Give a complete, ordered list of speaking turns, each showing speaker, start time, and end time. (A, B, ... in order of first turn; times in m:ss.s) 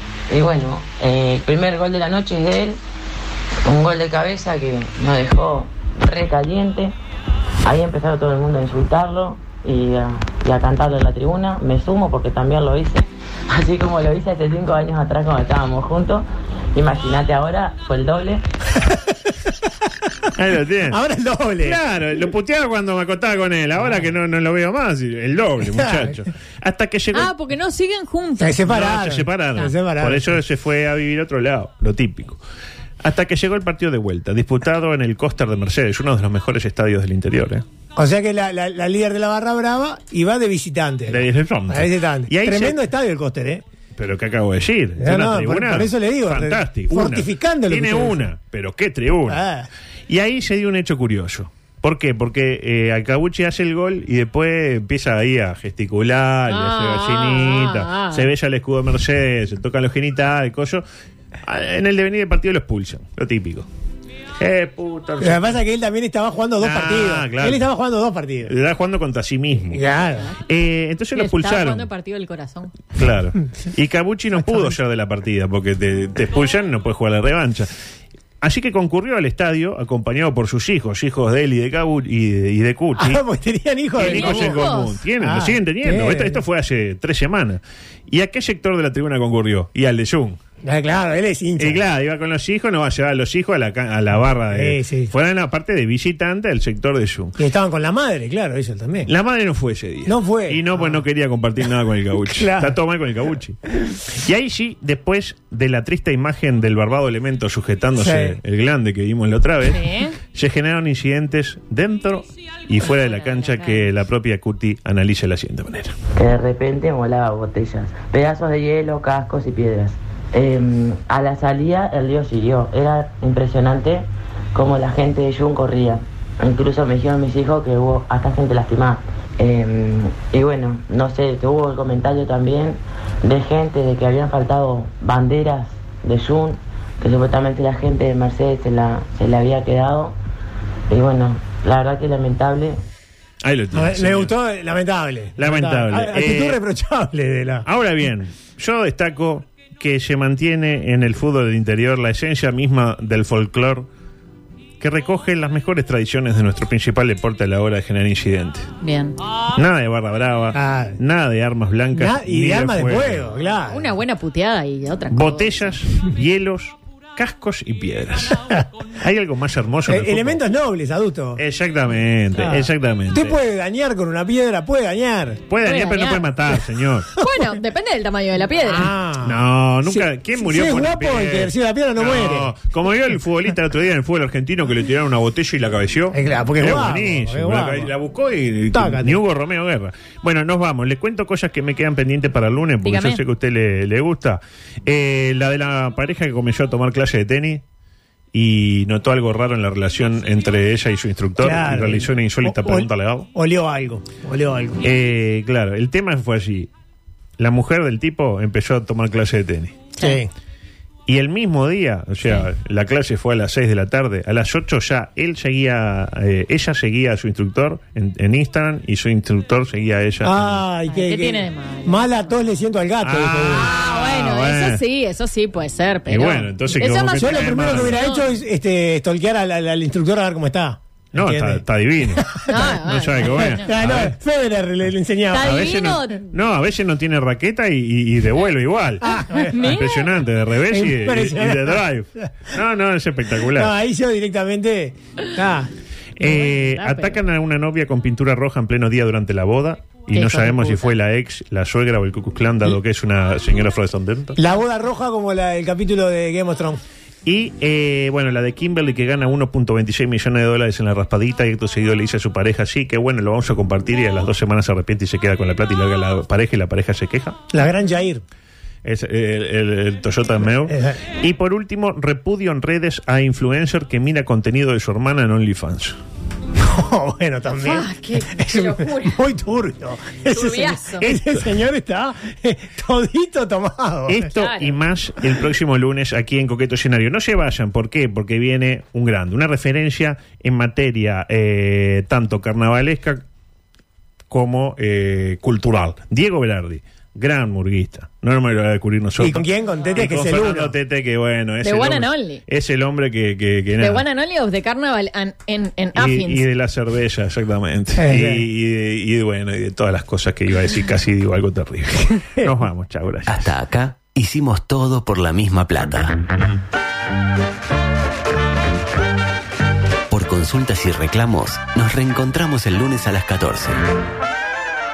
0:00.3-0:02.8 A
0:03.6-0:06.9 A
0:07.6-0:18.4 A
0:20.3-0:21.0 B
0:20.9-0:21.8 C
0:21.6-0:27.3 B
0:27.1-0:28.7 D
0:28.4-0:30.3 C
0:28.7-0:32.4 B
0:33.0-0:37.6 B
0:38.0-0:43.6 C
0:41.1-0:42.8 B
0:44.0-0:49.4 B
0:45.0-0:48.2 C
0:49.3-0:49.7 C
0:50.1-1:00.8 B
0:56.5-0:58.3 D
1:01.4-1:03.7 B
1:04.4-1:05.6 B
1:05.2-1:08.5 C
1:06.6-1:07.7 B
1:08.4-1:09.8 B
1:09.7-1:10.3 C
1:10.4-1:11.9 B
1:11.1-1:12.7 D
1:12.9-1:17.7 B
1:18.4-1:23.2 B
1:23.0-1:24.6 C
1:24.0-1:30.4 B
1:24.0-1:25.0 D
1:25.2-1:26.4 C
1:30.6-1:31.8 C
1:31.6-1:37.4 B
1:34.5-1:35.1 C
1:37.4-1:39.1 C
1:39.1-1:56.0 B
1:40.0-1:41.0 C
1:42.4-1:42.7 C
1:48.0-1:48.4 C
1:49.6-1:50.2 D
1:52.9-1:53.9 D
1:56.2-2:20.1 A
2:20.9-2:22.8 A
2:23.4-2:24.3 B
2:23.7-2:27.6 C
2:25.4-2:26.6 B
2:27.6-2:33.9 B
2:34.8-2:38.7 B
2:38.8-2:39.2 D
2:39.5-2:43.3 B
2:40.5-2:41.0 C
2:41.9-2:43.9 C
2:43.7-2:45.7 D
2:45.1-2:48.4 B
2:49.0-2:50.4 B
2:49.9-2:51.4 C
2:51.4-2:53.4 B
2:52.4-2:55.4 C
2:55.5-2:57.1 B
2:55.6-2:56.2 D
2:57.2-2:58.9 D
2:58.6-3:02.5 C
2:59.2-3:17.6 B
3:06.1-3:07.9 C
3:08.7-3:09.2 C
3:12.8-3:13.2 D
3:18.3-3:23.3 B
3:21.4-3:24.8 C
3:24.8-3:26.7 B
3:27.4-3:29.8 B
3:30.0-3:30.3 C
3:31.1-3:40.6 B
3:40.2-3:43.7 C
3:40.9-3:42.4 D
3:43.0-3:44.8 B
3:43.5-3:48.3 D
3:46.1-3:48.0 B
3:47.2-3:51.6 C
3:51.1-3:54.2 B
3:52.1-3:52.8 C
3:52.5-3:53.7 D
3:53.3-3:55.6 C
3:55.3-3:56.3 D
3:55.4-4:03.7 B
3:59.0-4:00.1 D
3:59.3-3:59.7 C
4:00.7-4:01.8 C
4:03.5-4:05.7 C
4:06.2-4:07.2 D
4:06.2-4:14.4 B
4:10.1-4:10.9 D
4:14.4-4:16.8 C
4:17.2-4:27.4 B
4:27.5-4:28.2 C
4:28.8-4:36.0 B
4:30.7-4:31.0 C
4:36.6-4:44.2 C
4:37.6-4:39.2 D
4:40.3-4:41.1 D
4:44.1-4:53.2 B
4:44.3-4:44.8 D
4:54.3-5:04.0 B
4:59.2-5:00.7 C
5:01.6-5:02.4 D
5:03.8-5:06.4 D
5:06.0-5:13.5 B
5:08.0-5:08.4 C
5:13.3-5:16.2 E
5:20.1-5:23.8 E